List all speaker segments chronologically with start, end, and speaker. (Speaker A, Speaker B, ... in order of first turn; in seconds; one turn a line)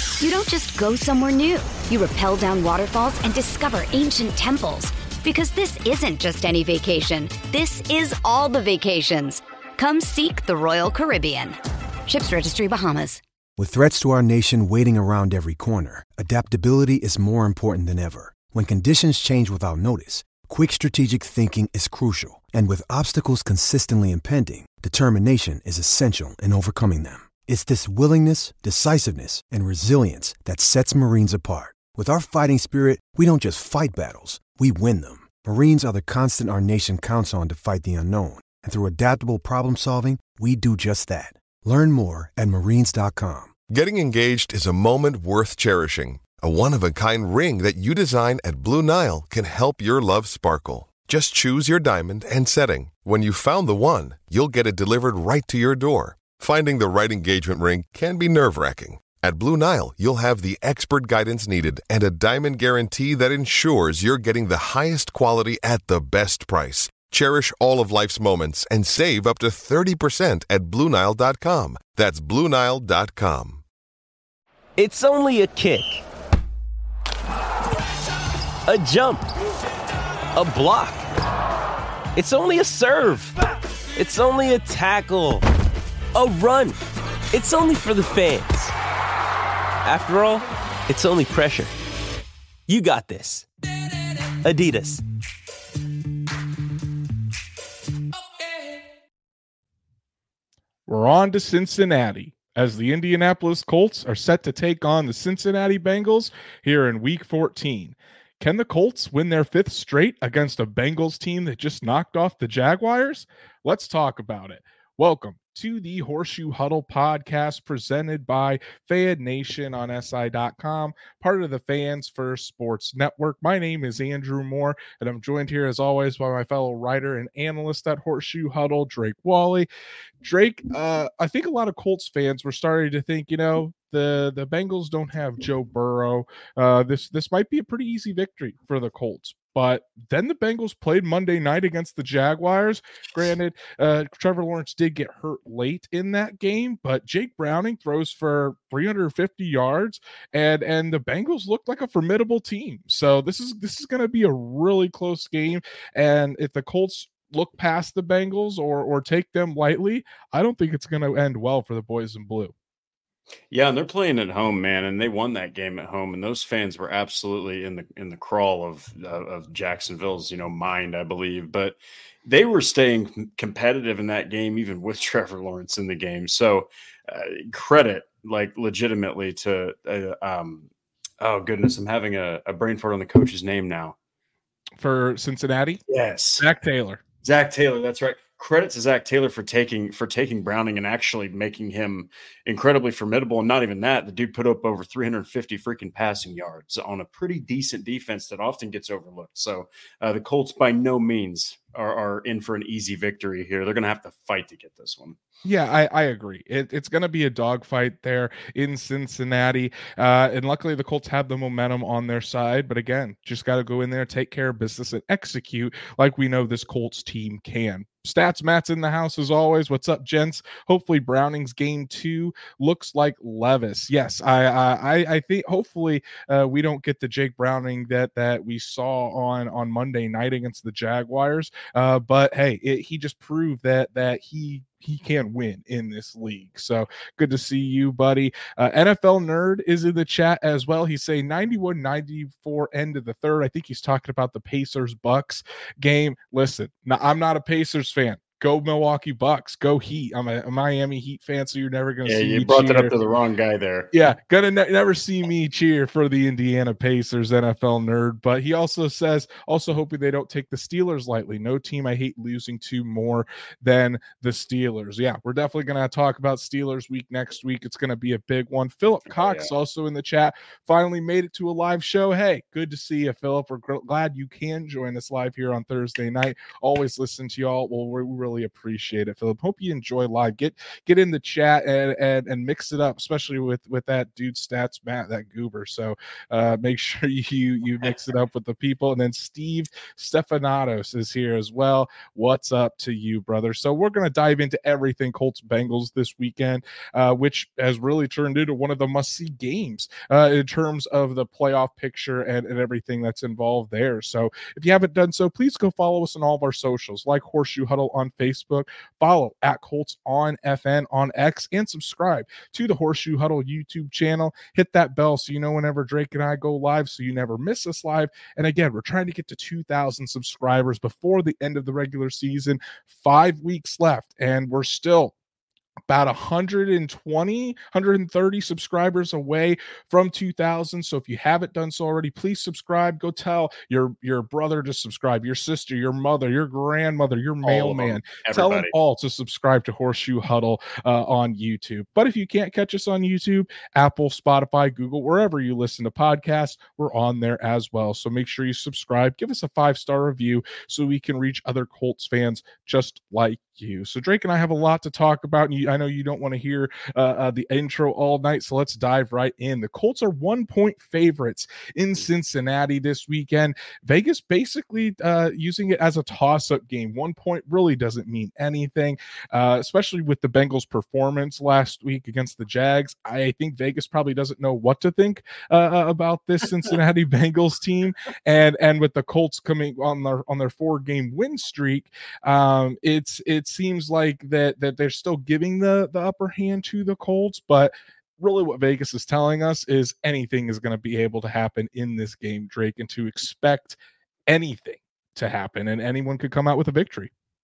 Speaker A: 0.2-13.2
Speaker B: 13.6-43.5
Speaker C: 43.7-73.6
Speaker D: 74.8-76.0
Speaker D: 78.7-79.3
Speaker D: 80.3-81.1
Speaker D: 82.2-83.4
Speaker D: 84.0-85.5
Speaker D: 86.1-86.8
Speaker D: 87.3-88.8
Speaker D: 89.8-91.8
Speaker D: 92.7-93.5
Speaker D: 94.4-95.0
Speaker E: 100.9-129.7
Speaker E: 130.2-162.5
Speaker F: 163.5-180.7
Speaker F: 181.2-184.0
Speaker E: 184.8-185.8
Speaker F: 185.9-186.5
Speaker E: 186.4-187.0
Speaker F: 187.2-205.2
Speaker E: 205.4-252.9
Speaker F: 252.1-253.9
Speaker E: 253.9-325.1
Speaker F: 269.1-269.5
Speaker E: 325.9-397.1
Speaker F: 337.4-338.7